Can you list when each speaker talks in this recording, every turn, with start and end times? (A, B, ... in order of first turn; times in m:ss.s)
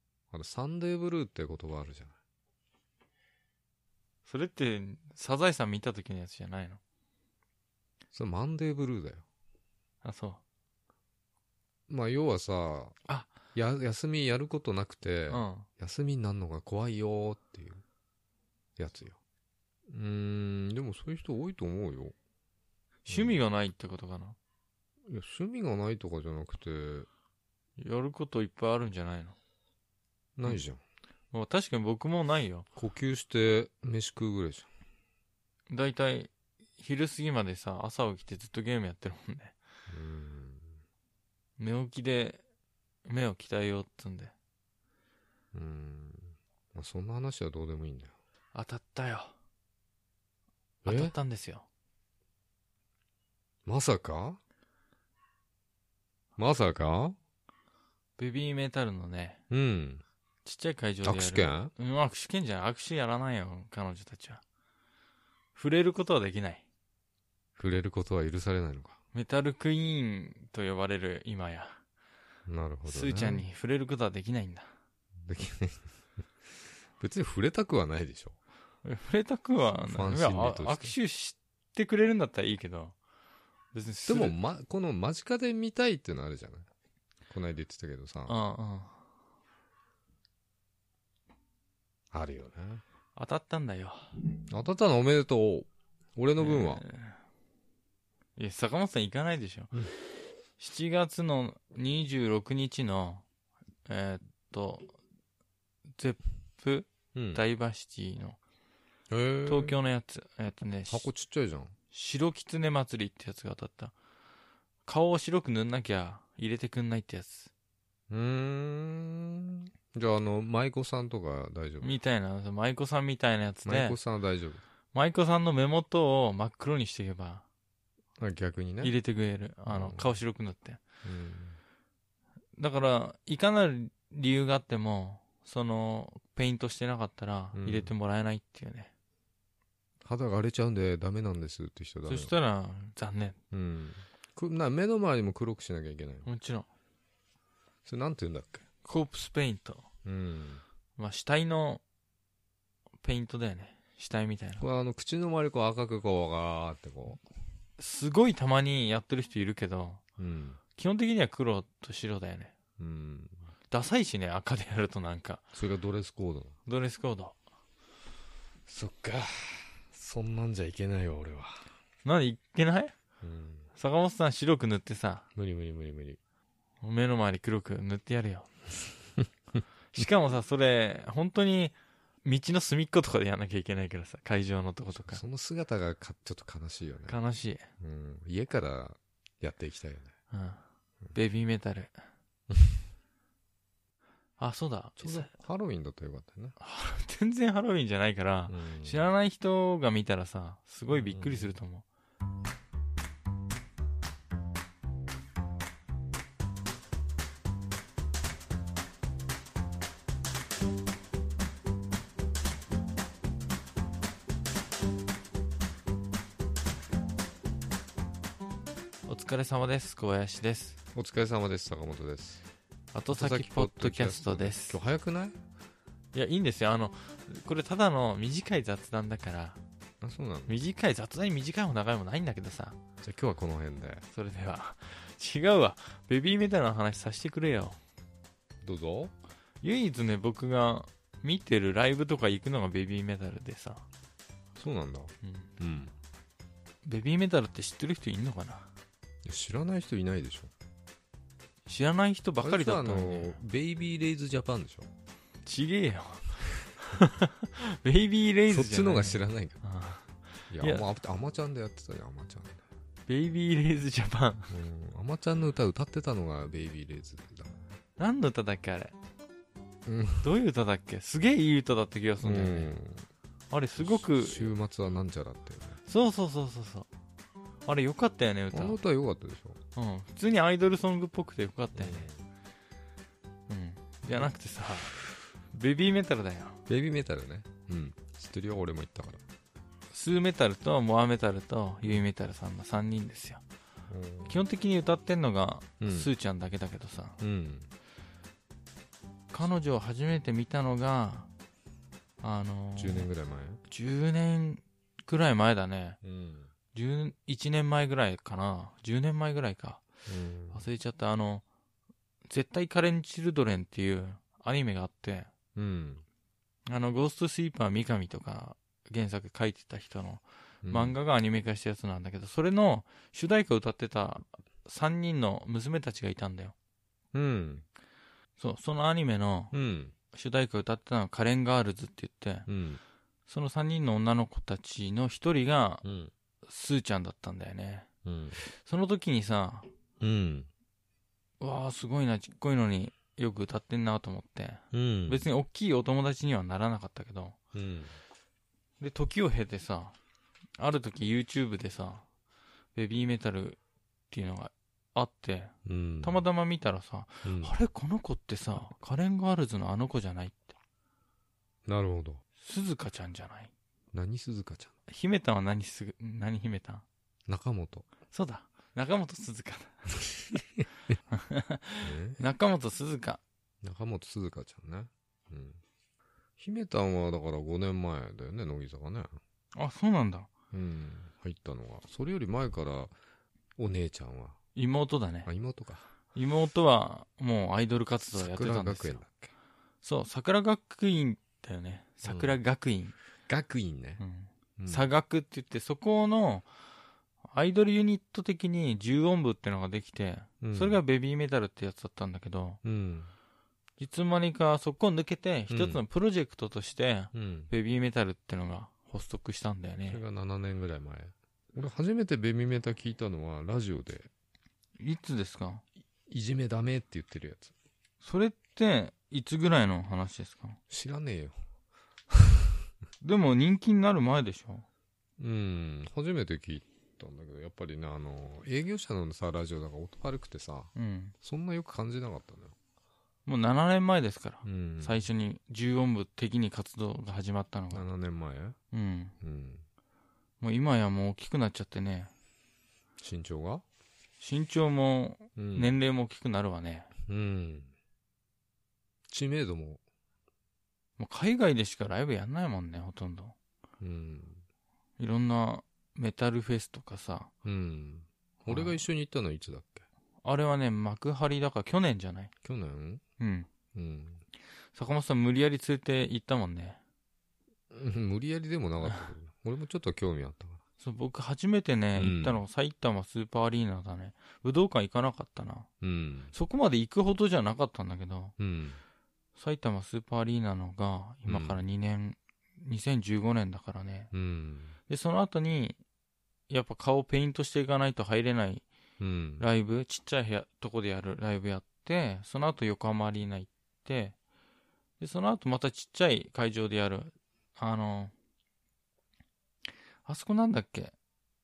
0:00.3-0:02.2 A
0:04.2-0:06.8 B
0:08.1-0:09.2 A
0:10.0-0:10.4 B
0:11.9-0:13.0 A
0:13.5-0:17.8 A
0:15.3-0:15.7 B
0:18.8-0:19.2 A
0:19.9-0:22.2 A
0:23.1-0:24.4 B
0:23.1-0:23.4 A
0:25.1-0:27.1 A
0:27.8-0:29.3 B
0:30.4-0:30.8 A
0:31.3-0:32.7 B
0:32.7-0:34.7 A
0:35.7-0:39.6 B
0:39.9-0:40.8 A
0:41.6-0:42.4 B
0:43.0-0:44.3 B
0:45.5-0:48.1 A
0:48.6-0:49.3 B
0:50.8-0:51.1 A
0:50.8-0:51.7 B
0:53.6-0:54.4 A
0:56.4-0:57.2 A
0:58.2-0:59.4 B
0:59.5-1:00.0 A
1:00.4-1:04.4 B
1:01.0-1:01.7 A
1:05.6-1:06.6 B
1:07.6-1:09.0 A
1:09.1-1:11.8 B
1:12.5-1:13.4 A
1:12.9-1:14.7 B
1:15.2-1:18.4 A
1:18.8-1:22.9 B
1:19.8-1:20.9 A
1:23.7-1:24.4 B
1:24.0-1:26.7 A
1:27.3-1:28.4 A
1:28.3-1:28.9 B
1:32.1-1:32.8 A
1:33.2-1:34.2 B
1:34.5-1:36.8 A
1:36.4-1:37.2 B
1:38.4-1:39.9 B
1:40.6-1:43.2 B
1:43.9-1:44.9 B
1:46.0-1:48.4 B
1:47.1-1:47.4 A
1:49.1-1:49.8 A
1:49.4-1:51.1 B
1:50.9-1:51.7 A
1:51.9-1:53.9 B
1:54.9-1:57.5 B
1:58.1-2:01.9 A
2:01.8-2:04.0 B
2:03.7-2:04.6 A
2:04.9-2:07.4 B
2:08.2-2:08.9 A
2:08.8-2:10.8 B
2:09.7-2:10.2 A
2:11.0-2:11.6 A
2:12.6-2:18.9 B
2:17.5-2:17.9 A
2:20.0-2:22.3 A
2:22.0-2:23.4 B
2:23.5-2:26.3 A
2:26.2-2:26.7 B
2:27.8-2:28.6 A
2:28.8-2:29.8 B
2:30.0-2:30.6 A
2:31.0-2:31.8 B
2:33.0-2:34.6 B
2:34.6-2:37.2 A
2:37.8-2:40.0 B
2:40.2-2:40.6 A
2:40.8-2:42.5 B
2:42.8-2:43.4 A
2:43.7-2:45.5 B
2:45.5-2:46.5 A
2:46.7-2:47.3 B
2:48.7-2:51.7 A
2:52.0-2:53.0 B
2:53.2-2:53.7 A
2:53.8-2:55.2 B
2:55.3-2:56.2 A
2:56.8-2:58.5 B
2:59.9-3:05.2 B
3:05.0-3:07.2 A
3:07.1-3:07.7 B
3:07.8-3:10.1 A
3:10.3-3:10.6 B
3:11.1-3:12.0 B
3:14.4-3:15.3 B
3:15.0-3:16.6 A
3:16.6-3:21.8 B
3:18.5-3:19.0 A
3:20.9-3:21.5 A
3:39.1-3:40.8 B
3:41.0-3:42.4 A
3:42.9-3:44.8 B
3:43.1-3:45.4 A
3:46.1-3:49.6 B
3:50.0-3:50.6 A
3:50.5-3:52.8 B
3:53.0-3:54.0 A
3:54.1-3:57.8 B
3:58.6-3:59.1 A
3:59.6-4:03.8 B
4:04.6-4:05.9 A
4:05.2-4:05.5 B
4:06.8-4:08.7 B
4:09.2-4:10.5 A
4:11.7-4:13.4 B
4:12.4-4:14.9 A
4:15.4-4:20.0 B
4:18.5-4:19.6 A
4:20.5-4:22.6 A
4:20.6-4:20.9 B
4:23.1-4:24.5 B
4:24.5-4:27.6 A
4:28.0-4:28.9 B
4:29.8-4:30.3 A
4:30.2-4:32.7 B
4:32.2-4:33.1 A
4:33.5-4:34.5 B
4:33.8-4:35.8 A
4:35.8-4:36.9 B
4:37.6-4:38.8 B
4:38.5-4:39.6 A
4:39.8-4:42.1 B
4:41.8-4:42.2 A
4:43.5-4:46.6 B
4:46.7-4:49.2 A
4:49.9-4:53.4 B
4:53.9-4:54.4 A
4:54.2-4:57.2 B
4:55.8-4:56.1 A
4:57.2-4:57.7 A
4:59.3-5:01.3 B
5:02.2-5:03.1 B
5:02.8-5:03.6 A
5:03.7-5:06.0 B
5:06.0-5:06.5 A
5:06.7-5:09.8 B
5:10.1-5:10.6 A
5:10.5-5:11.4 B
5:12.3-5:15.3 B
5:15.5-5:16.0 A
5:16.7-5:26.5 B
5:20.6-5:21.0 A
5:27.1-5:27.6 A
5:28.4-5:29.5 B
5:29.5-5:29.9 A
5:30.1-5:32.5 B
5:32.5-5:32.8 A
5:33.3-5:35.8 B
5:35.8-5:36.1 A
5:36.4-5:37.9 B
5:38.0-5:38.4 A
5:38.4-5:39.7 B
5:40.0-5:40.5 A
5:41.4-5:47.4 B
5:44.7-5:45.3 A
5:47.5-5:48.0 A
5:48.8-5:50.0 B
5:50.6-5:52.0 B
5:52.8-5:53.6 B
5:54.1-6:00.5 B
5:55.6-5:56.2 A
5:57.2-5:57.5 A
6:01.6-6:02.2 A
6:02.4-6:03.5 B
6:03.9-6:04.7 A
6:04.9-6:06.8 B
6:07.3-6:07.9 A
6:08.1-6:09.9 B
6:10.3-6:10.6 A
6:11.1-6:13.2 B
6:11.8-6:12.2 A
6:13.6-6:15.6 A
6:16.4-6:19.2 A
6:19.5-6:20.3 B
6:20.5-6:22.9 A
6:23.6-6:24.4 A
6:24.6-6:25.3 B
6:25.2-6:25.9 A
6:26.1-6:29.0 B
6:28.1-6:29.3 A
6:29.8-6:33.0 B
6:32.0-6:32.4 A
6:33.3-6:34.0 A
6:34.0-6:36.5 B
6:34.6-6:34.9 A
6:37.2-6:42.6 B
6:40.4-6:40.8 A
6:42.6-6:43.1 A
6:43.8-6:50.0 B
6:45.5-6:45.8 A
6:47.1-6:47.5 A
6:49.9-6:54.1 A
6:54.8-6:55.6 B
6:56.1-6:57.5 A
6:58.0-7:00.6 B
7:00.7-7:01.4 A
7:02.1-7:02.6 A
7:03.0-7:04.6 B
7:05.2-7:10.7 A
7:10.8-7:11.1 B
7:11.2-7:12.5 A
7:13.2-7:17.8 B
7:14.4-7:15.0 A
7:17.7-7:18.6 A
7:18.7-7:19.1 B
7:19.2-7:19.6 A
7:20.4-7:22.1 B
7:23.0-7:23.6 A
7:24.2-7:26.9 B
7:25.4-7:25.7 A
7:27.1-7:27.7 A
7:29.1-7:29.8 A
7:31.0-7:33.3 B
7:33.8-7:34.4 A
7:35.0-7:37.3 B
7:37.4-7:39.9 A
7:38.4-7:38.8 B
7:40.2-7:42.3 B
7:42.4-7:43.0 A
7:43.2-7:43.5 B
7:43.7-7:44.2 A
7:44.7-7:46.8 B
7:47.7-7:50.6 A
7:50.8-7:55.7 B
7:52.0-7:52.4 A
7:55.8-7:56.3 A
7:56.3-7:58.3 B
7:58.4-7:58.8 A
7:59.4-8:04.1 B
8:01.2-8:01.6 A
8:04.1-8:04.8 A
8:04.9-8:05.8 B
8:06.5-8:08.6 B
8:09.0-8:09.4 A
8:09.4-8:14.1 B
8:15.0-8:18.1 B
8:20.1-8:20.9 B